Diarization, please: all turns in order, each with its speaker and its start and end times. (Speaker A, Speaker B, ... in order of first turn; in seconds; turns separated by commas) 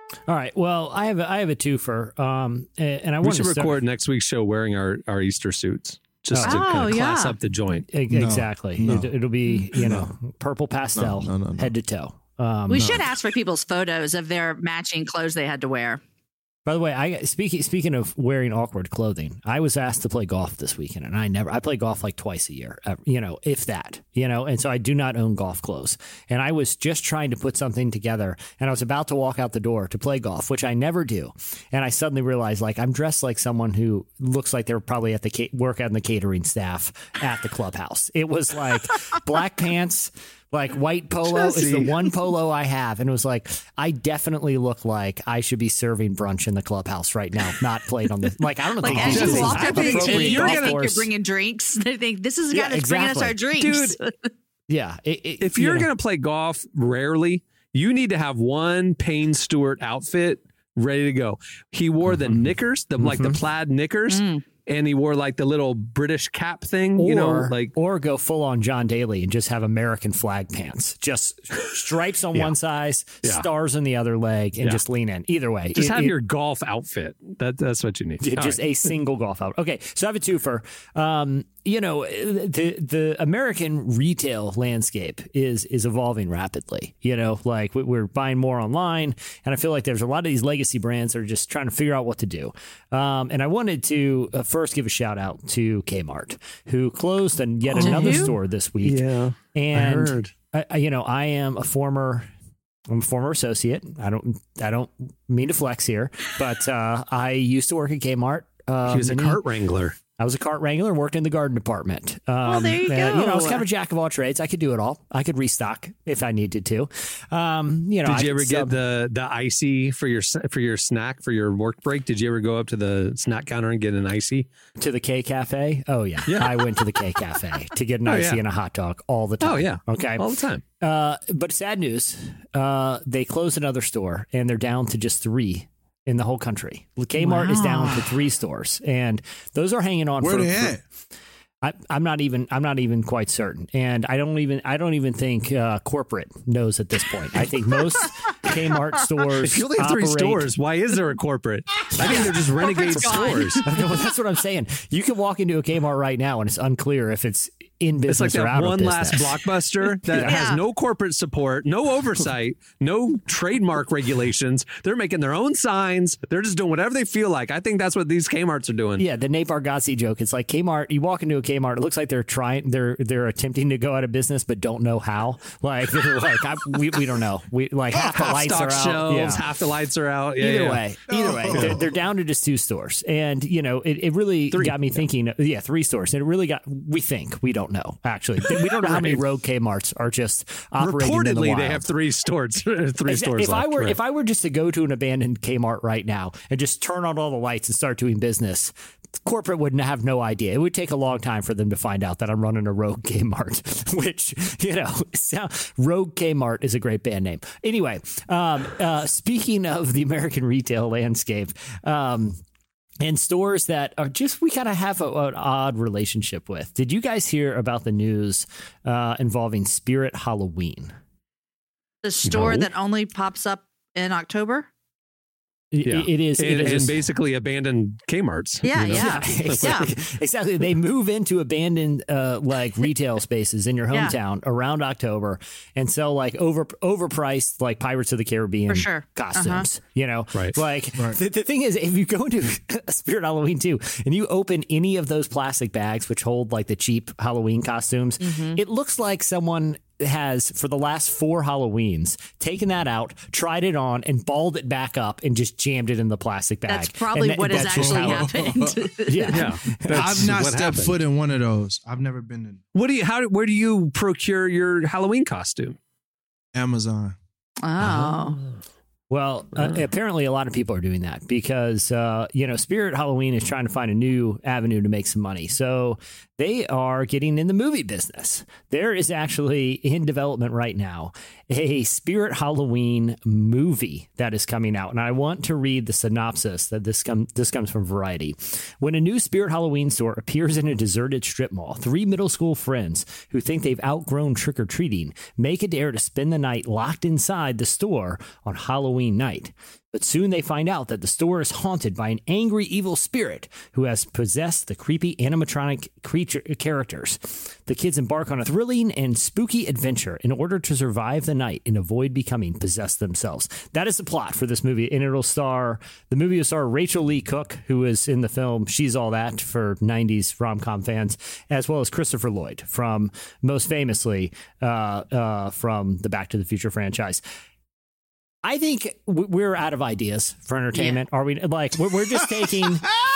Speaker A: 0.3-3.8, Speaker B: 3.2-7.9, Speaker A: 6.3-6.6, Speaker C: 6.4-7.4, Speaker A: 7.9-12.9, Speaker D: 8.1-9.1, Speaker D: 9.8-10.1, Speaker D: 11.0-11.7, Speaker C: 12.7-16.0, Speaker D: 12.7-13.2, Speaker A: 16.7-51.1, Speaker B: 41.2-42.0, Speaker C: 48.8-54.3, Speaker B: 48.9-50.9, Speaker D: 49.0-49.4, Speaker A: 52.5-53.4, Speaker B: 53.6-54.0, Speaker A: 54.7-55.9, Speaker B: 55.4-67.7, Speaker A: 63.0-63.4, Speaker C: 64.1-64.4, Speaker A: 67.0-76.2, Speaker B: 75.7-78.9, Speaker A: 78.2-99.0, Speaker B: 97.7-100.3, Speaker C: 97.8-98.3, Speaker A: 99.5-102.3, Speaker A: 102.9-109.4, Speaker B: 108.9-110.0, Speaker A: 110.2-118.7, Speaker C: 112.4-113.6, Speaker B: 118.0-124.5, Speaker A: 124.8-130.3, Speaker B: 126.3-126.6, Speaker B: 128.1-128.4, Speaker B: 129.4-130.6, Speaker A: 130.8-140.8, Speaker C: 137.2-138.1, Speaker D: 140.2-140.8, Speaker A: 141.6-150.5, Speaker B: 149.4-153.6, Speaker A: 152.0-159.5, Speaker C: 152.0-153.7, Speaker B: 158.1-169.1, Speaker A: 160.0-160.5, Speaker C: 160.2-160.6, Speaker A: 169.0-179.4, Speaker B: 177.9-180.8, Speaker A: 180.4-191.9, Speaker D: 181.1-181.9, Speaker B: 184.5-185.0, Speaker B: 188.7-189.2, Speaker B: 190.8-194.0, Speaker A: 193.1-212.4, Speaker A: 213.0-220.9, Speaker C: 222.0-224.7, Speaker B: 222.3-222.7, Speaker A: 225.7-227.0, Speaker B: 225.8-229.9, Speaker C: 228.6-229.9, Speaker A: 228.8-258.5, Speaker C: 238.7-239.7, Speaker B: 240.3-240.6, Speaker C: 248.2-248.6, Speaker C: 256.7-259.4, Speaker D: 257.5-258.8, Speaker A: 259.1-260.3, Speaker B: 259.3-261.0, Speaker D: 259.9-262.6, Speaker B: 262.7-265.8, Speaker D: 266.5-267.2, Speaker C: 267.6-268.4, Speaker A: 267.8-268.2, Speaker A: 269.1-327.2, Speaker A: 328.4-332.9, Speaker C: 330.8-331.0